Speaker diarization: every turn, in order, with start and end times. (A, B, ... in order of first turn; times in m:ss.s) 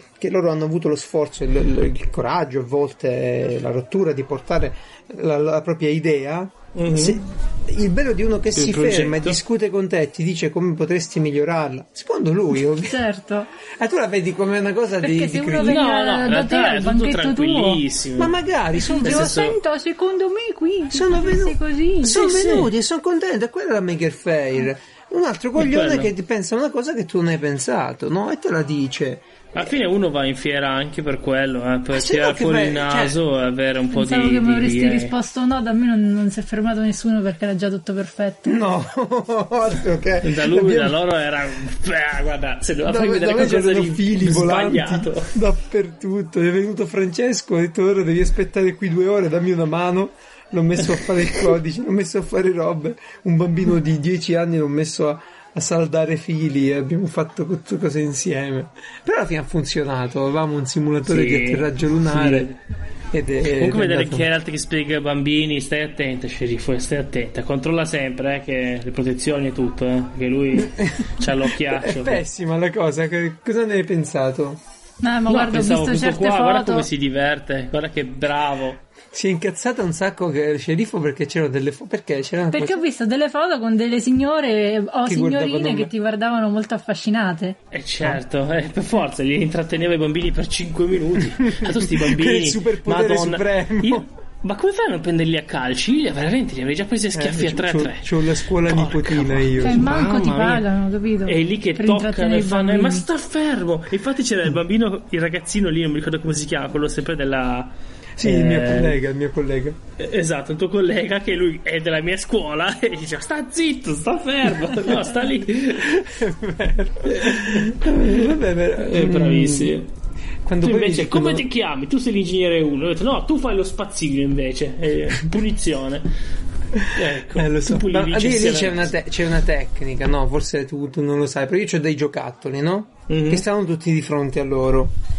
0:00.2-0:13.0 A
0:06.7-0:07.2 B
0:08.5-0:09.4 B
0:12.8-0:13.5 C
0:13.6-0:15.8 A
0:15.0-0:17.8 C
0:15.6-0:18.4 B
0:18.2-0:19.6 A
0:18.8-0:22.2 C
0:19.0-0:19.6 B
0:20.9-0:29.7 A
0:22.0-0:22.7 B
0:25.6-0:26.1 B
0:29.5-0:35.1 B
0:31.9-0:33.2 A
0:33.9-0:38.6 C
0:38.4-0:41.0 A
0:40.2-0:45.3 B
0:42.8-1:02.5 A
0:50.9-0:51.5 B
1:01.0-1:02.6 B
1:03.1-1:04.3 A
1:03.4-1:12.2 B
1:10.6-1:14.6 A
1:15.0-1:16.9 C
1:15.3-1:18.8 B
1:19.1-1:22.8 A
1:22.5-1:27.6 C
1:25.0-1:25.9 A
1:27.7-1:40.6 B
1:31.4-1:34.0 A
1:37.1-1:40.0 A
1:39.6-1:43.0 C
1:41.2-1:47.7 B
1:48.2-1:49.8 A
1:48.2-1:49.0 B
1:50.0-1:56.0 B
1:55.8-1:59.8 A
1:57.1-1:59.9 B
2:00.4-2:01.4 A
2:00.6-2:06.1 B
2:06.7-2:14.9 A
2:06.8-2:08.9 B
2:13.1-2:13.4 B